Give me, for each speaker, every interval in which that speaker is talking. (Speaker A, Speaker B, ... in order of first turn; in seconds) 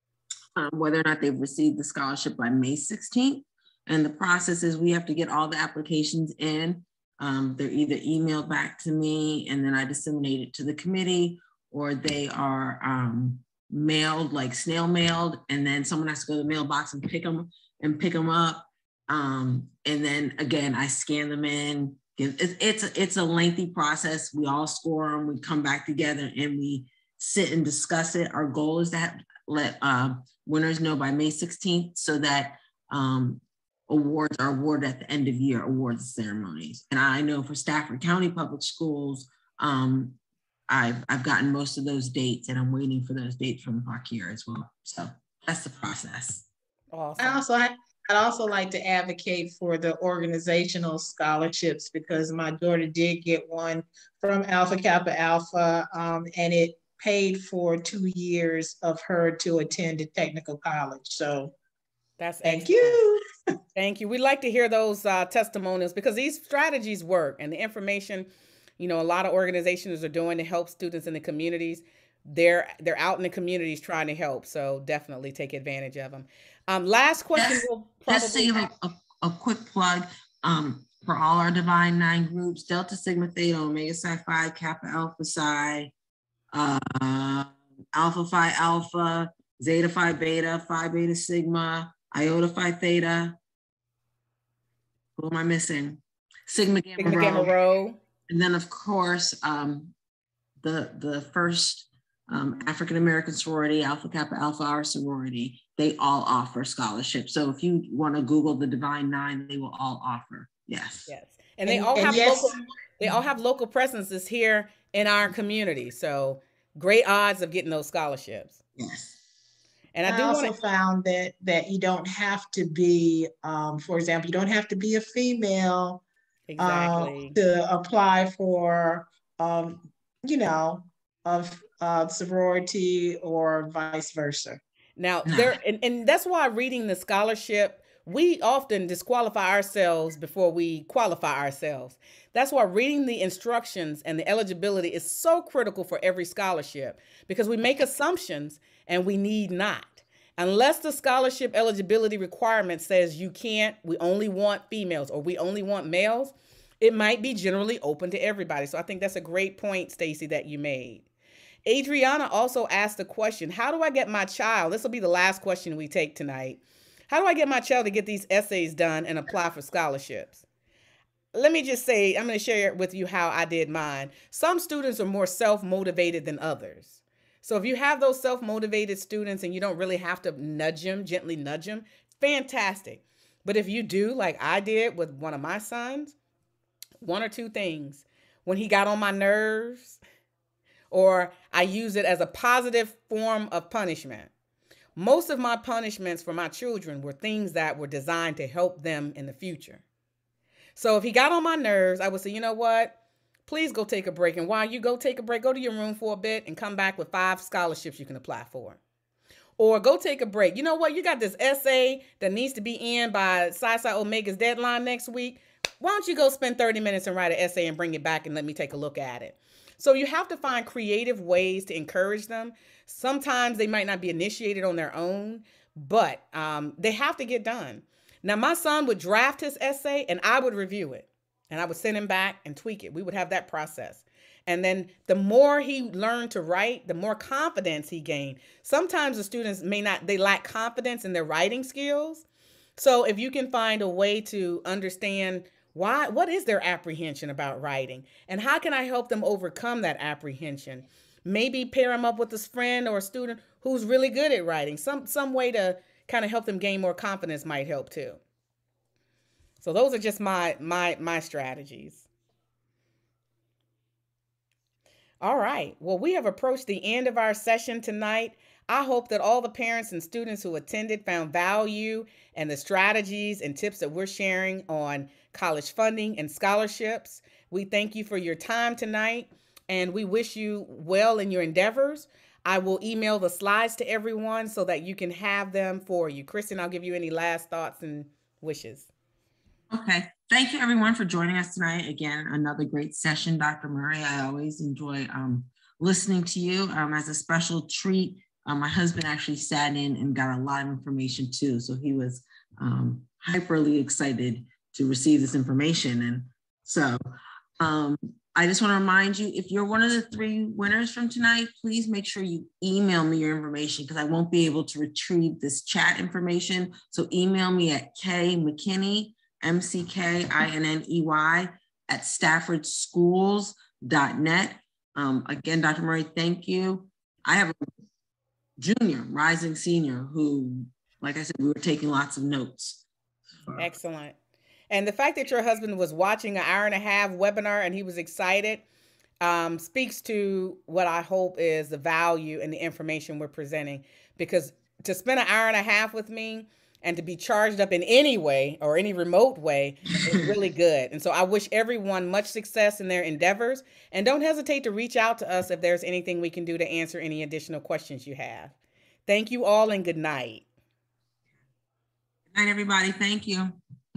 Speaker A: 0.6-46.5, 77.3-85.9, 86.5-93.4, 95.2-97.5, 98.3-99.9, 100.6-111.1, 118.8-119.2, 135.2-135.6, 289.7-307.0, 307.6-327.6, 328.6-332.8, 362.3-363.6
Speaker B: 46.9-47.4, 62.2-63.0, 63.8-68.3, 68.8-78.7, 97.0-98.0, 111.1-118.6, 119.9-120.5, 126.5-127.4, 135.0-161.1, 161.6-170.4, 171.3-186.2, 187.0-190.0, 190.9-194.3, 194.9-199.8, 200.8-202.9, 203.4-208.8, 209.6-242.2, 242.8-258.2, 259.6-262.0, 265.2-288.9, 333.6-334.1, 334.7-338.6, 339.2-358.5, 359.1-360.4
Speaker C: 47.2-61.5, 62.4-63.2, 111.7-112.6, 120.0-126.0, 126.6-134.6